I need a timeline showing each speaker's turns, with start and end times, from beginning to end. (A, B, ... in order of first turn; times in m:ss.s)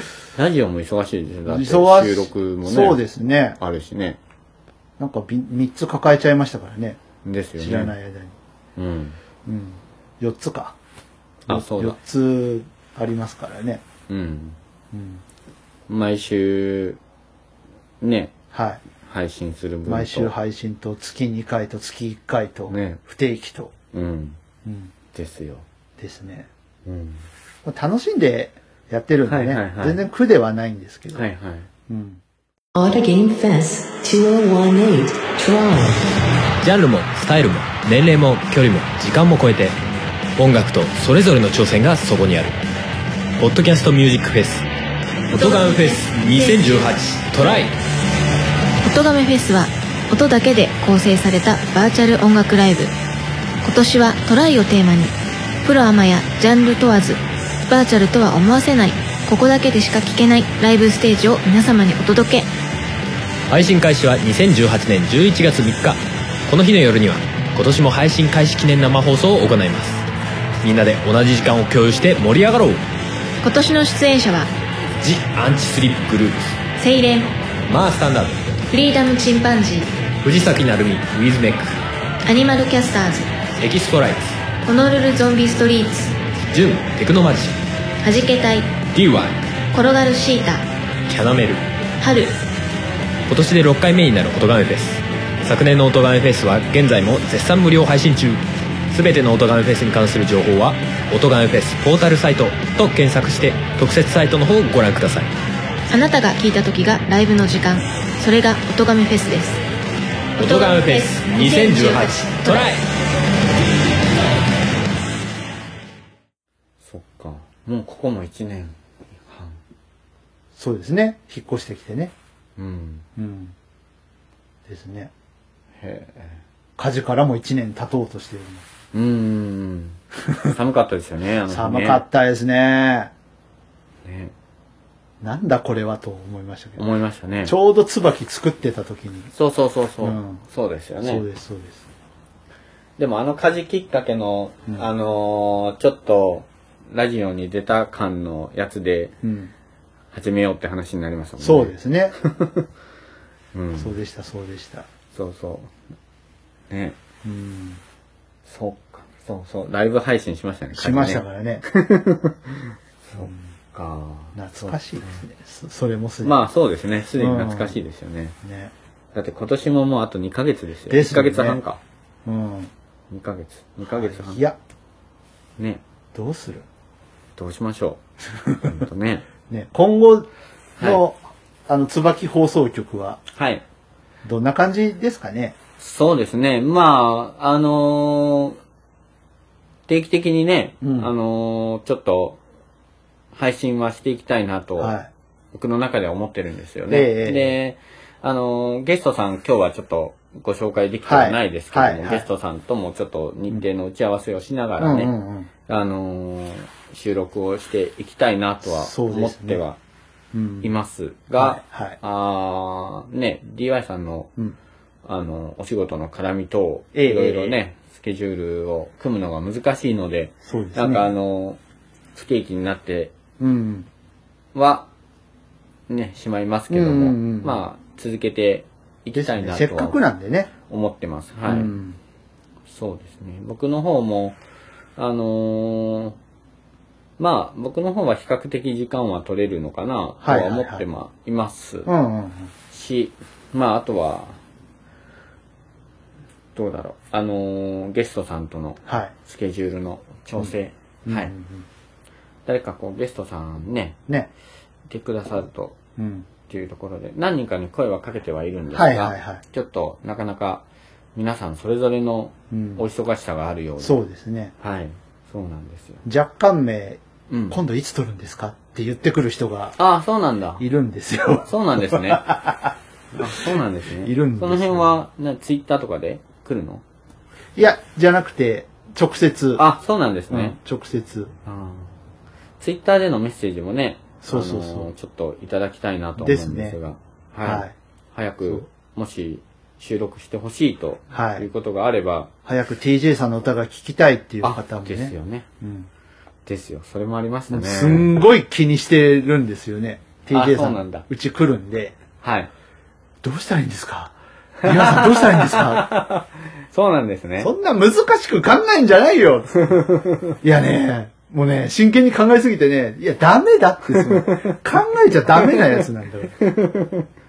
0:00.3-0:03.0 A
0:01.4-0:03.6 B
0:03.6-0:04.2 A
0:05.0-0:07.0 B
0:07.2-0:07.9 A
0:07.6-0:08.3 B
0:08.8-0:09.2 A
0:09.4-0:10.8 B
0:11.5-0:13.8 B
0:11.5-0:12.0 A
0:14.1-0:14.6 A
0:14.9-0:15.2 B
0:15.9-0:17.0 A
0:18.0-0:18.3 A
0:18.5-0:18.8 B
0:19.0-0:20.3 A
0:19.8-0:23.7 B
0:22.7-0:23.0 A
0:23.9-0:24.4 A
0:24.6-0:24.9 B
0:25.1-0:25.6 A
0:26.0-0:26.5 B
0:26.8-0:27.2 A
0:27.6-0:31.2 B
0:29.2-0:30.0 A
0:31.1-0:31.7 A
0:31.9-0:32.2 B
0:32.7-0:36.1 C
0:36.6-0:39.8 D
0:40.4-0:42.6 D
0:43.4-0:44.6 D
0:45.3-0:47.7 D
0:45.3-0:46.9 E
0:48.8-0:52.9 E
0:53.6-1:02.5 E
1:03.5-1:10.0 D
1:10.6-1:12.8 D
1:13.4-1:14.5 E
1:15.0-1:16.6 D
1:16.8-1:17.4 E
1:17.7-1:18.6 D
1:18.7-1:19.9 E
1:20.2-1:21.8 D
1:22.2-1:23.3 E
1:23.6-1:24.4 D
1:24.6-1:26.2 E
1:26.5-1:27.6 D
1:28.0-1:28.8 E
1:28.9-1:29.4 D
1:29.7-1:30.6 E
1:31.1-1:31.6 D
1:32.0-1:32.4 E
1:33.3-1:45.3 D
1:45.9-1:49.6 E
1:50.4-1:52.7 E
1:50.4-1:52.8 D
1:56.8-1:59.6 A
2:00.6-2:02.1 B
2:02.6-2:03.0 A
2:03.2-2:03.5 B
2:04.6-2:05.1 B
2:05.8-2:06.4 A
2:06.8-2:08.6 B
2:08.9-2:12.0 A
2:10.3-2:10.5 B
2:11.5-2:13.1 B
2:14.0-2:14.3 A
2:15.2-2:16.8 B
2:16.8-2:17.5 A
2:17.4-2:19.3 B
2:19.3-2:21.2 A
2:20.0-2:20.4 B
2:21.0-2:21.9 B
2:23.0-2:29.1 A
2:29.2-2:29.5 B
2:30.1-2:32.7 A
2:31.4-2:32.2 B
2:33.5-2:33.9 A
2:33.8-2:34.9 B
2:35.1-2:35.7 A
2:36.7-2:37.0 A
2:37.2-2:37.8 B
2:38.4-2:45.2 A
2:40.8-2:41.6 B
2:44.3-2:46.3 B
2:46.2-2:48.4 A
2:47.2-2:47.8 B
2:48.4-2:48.7 B
2:49.1-2:51.8 A
2:50.9-2:51.6 B
2:52.2-2:52.7 B
2:53.1-2:54.4 A
2:53.8-2:54.6 B
2:56.1-2:56.6 B
2:57.4-2:59.2 A
2:58.4-2:58.7 B
2:59.5-3:03.2 B
3:03.3-3:03.6 A
3:04.2-3:05.5 B
3:05.8-3:08.6 A
3:09.9-3:12.4 A
3:10.8-3:11.1 B
3:13.3-3:15.0 A
3:14.8-3:15.1 B
3:15.5-3:25.1 A
3:16.9-3:17.5 B
3:21.0-3:22.2 B
3:24.8-3:25.5 B
3:25.6-3:29.8 A
3:28.6-3:29.6 B
3:30.3-3:30.7 B
3:30.6-3:34.3 A
3:31.4-3:32.0 B
3:35.0-3:41.6 A
3:36.9-3:37.6 B
3:40.4-3:41.1 B
3:42.1-3:43.1 A
3:43.4-3:43.9 B
3:44.5-3:44.9 A
3:45.9-3:50.0 A
3:46.7-3:47.6 B
3:49.1-3:50.5 B
3:50.7-3:51.7 A
3:51.5-3:52.0 B
3:52.7-3:54.4 A
3:55.0-3:56.2 A
3:57.2-4:01.9 A
4:00.2-4:00.8 B
4:01.8-4:02.5 B
4:02.7-4:04.4 A
4:06.6-4:11.3 A
4:08.8-4:09.1 B
4:11.0-4:11.6 B
4:12.4-4:14.0 A
4:14.9-4:15.8 A
4:16.0-4:16.3 B
4:16.5-4:20.6 A
4:18.7-4:19.4 B
4:21.1-4:24.0 A
4:22.5-4:22.8 B
4:23.8-4:24.5 B
4:24.6-4:26.0 A
4:26.0-4:29.8 B
4:27.3-4:27.6 A
4:29.8-4:30.6 A
4:30.6-4:32.7 B
4:31.5-4:32.4 A
4:33.1-4:36.8 A
4:34.0-4:34.9 B
4:37.6-4:39.6 B
4:39.6-4:40.6 A
4:40.3-4:41.3 B
4:41.4-4:41.9 A
4:42.6-4:52.3 A
4:44.2-4:44.9 B
4:46.2-4:46.8 B
4:47.4-4:47.7 B
4:51.1-4:51.5 B
4:52.4-4:55.9 B
4:54.4-4:55.5 A
4:56.4-4:58.1 A
4:57.5-5:02.0 B
5:00.3-5:01.0 A
5:02.2-5:02.5 A
5:03.2-5:05.9 B
5:04.6-5:07.5 A
5:07.4-5:09.8 B
5:09.6-5:10.4 A
5:10.4-5:16.3 B
5:13.9-5:14.6 A
5:15.3-5:17.1 A